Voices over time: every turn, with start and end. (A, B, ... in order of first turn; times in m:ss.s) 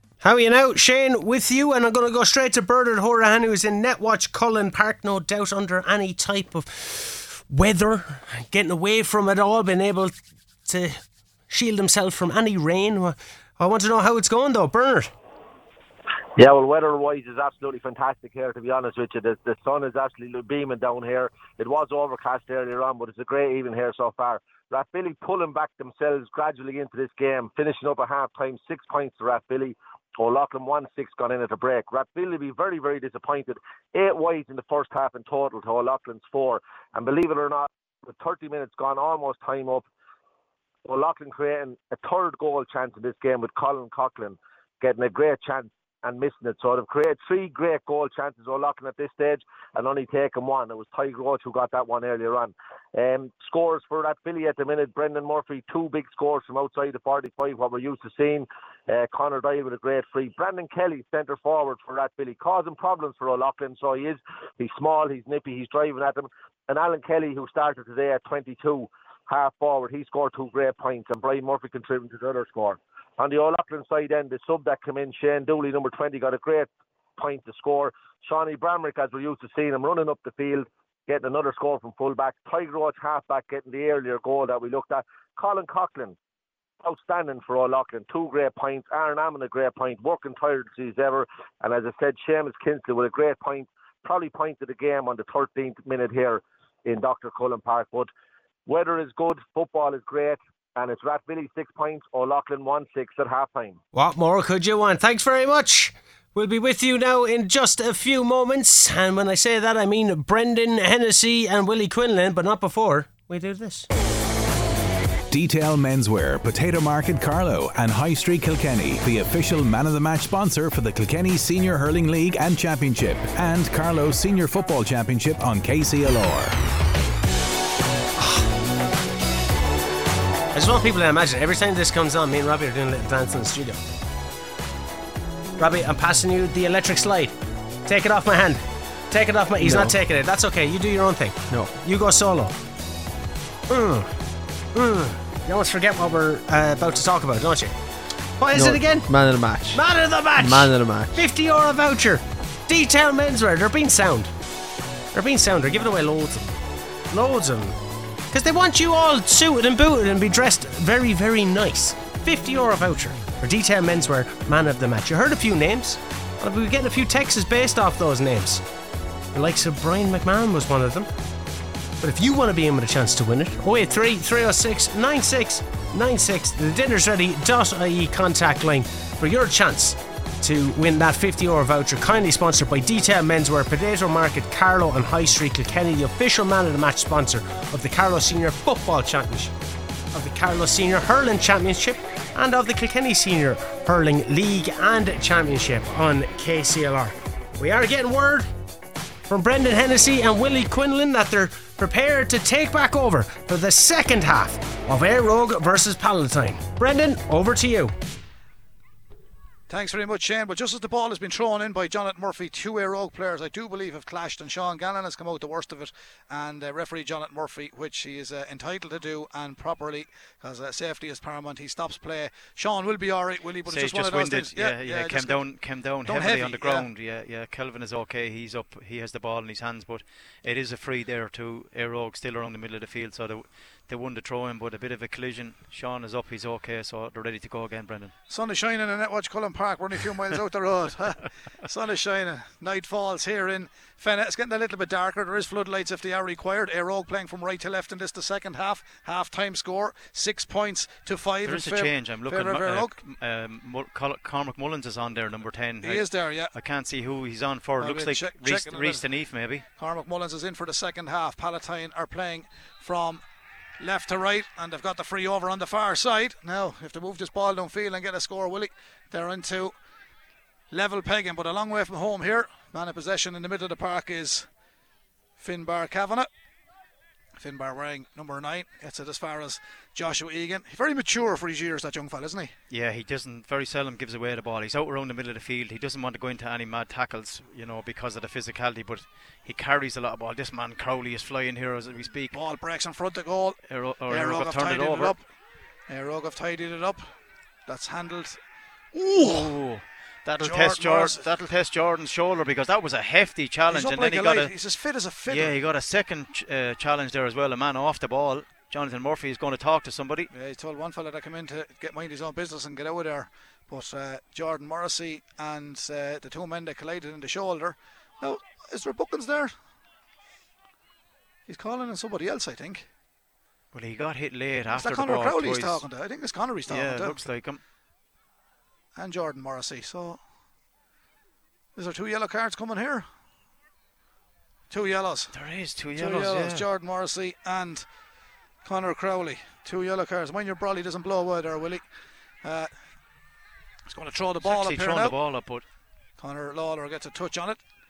0:00.2-0:15.1 A
0:16.4-0:39.8 B
0:40.8-1:26.2 B
1:26.8-1:38.1 B
1:38.6-1:43.8 B
1:43.9-1:53.9 A
1:55.3-2:06.6 C
2:10.5-2:13.8 A
2:15.6-2:22.5 A
2:19.6-2:20.0 D
2:23.7-2:24.1 A
2:24.7-2:27.7 A
2:28.4-2:29.1 A
2:28.5-2:29.8 D
2:29.7-2:34.3 A
2:30.4-2:31.2 D
2:35.1-2:36.6 A
2:37.1-2:37.8 A
2:38.3-2:48.6 A
2:49.3-2:51.1 A
2:52.0-3:09.5 A
3:10.1-3:18.5 A
3:19.3-3:27.9 A
3:29.7-3:45.4 E
3:43.7-3:58.1 F
3:46.0-3:46.9 E
3:58.3-4:12.9 E
4:11.4-4:19.6 F
4:15.8-4:16.5 E
4:17.8-4:19.0 E
4:19.8-4:23.2 E
4:23.8-4:29.7 E
4:30.7-4:34.5 E
4:35.4-4:36.3 E
4:37.4-4:42.5 E
4:42.7-4:52.4 F
4:52.3-4:55.2 E
4:53.7-4:55.1 F
4:55.9-4:57.1 E
4:57.7-4:58.4 E
4:58.9-4:59.6 E
4:59.2-5:04.5 F
5:00.4-5:01.2 E
5:03.7-5:05.6 E
5:05.3-5:10.3 F
5:10.3-5:19.5 E
5:21.5-5:22.8 E
5:23.7-5:25.8 F
5:24.7-5:27.2 E
5:26.7-5:27.6 F
5:29.0-5:30.2 E
5:31.8-5:33.0 E
5:34.7-5:35.3 E
5:35.3-5:36.6 F
5:36.0-5:37.8 E
5:38.6-5:41.8 E
5:42.4-5:42.7 E
5:43.9-5:45.2 E
5:44.4-5:45.6 F
5:46.2-5:47.6 E